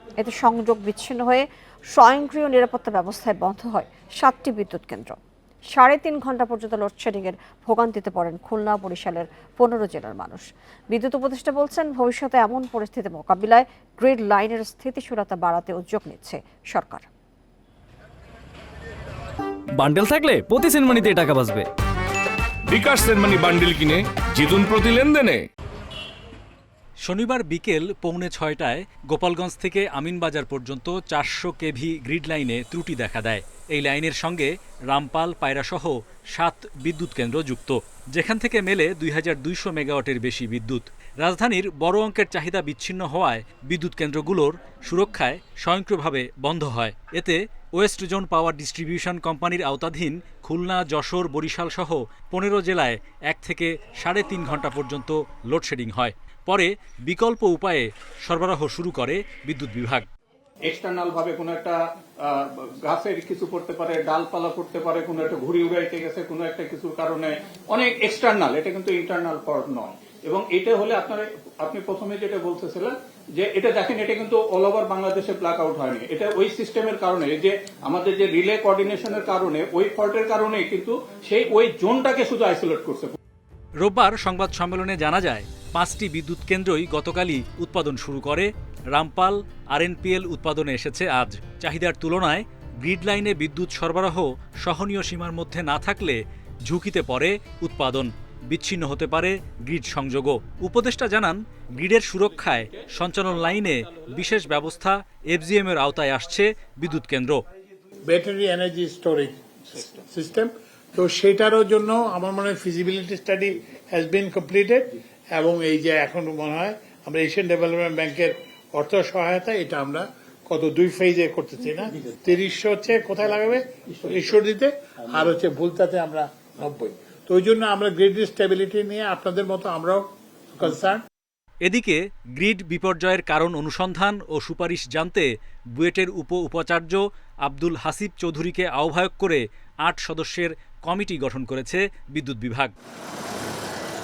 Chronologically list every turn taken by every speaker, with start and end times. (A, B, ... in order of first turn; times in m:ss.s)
0:00.2-0:05.2 A
0:05.7-0:17.1 A
0:19.7-0:21.7 B
0:22.7-0:25.4 C
0:27.0-1:00.1 D
1:00.6-1:23.2 E
1:23.8-1:47.4 D
1:48.1-2:11.0 F
2:11.6-2:22.7 D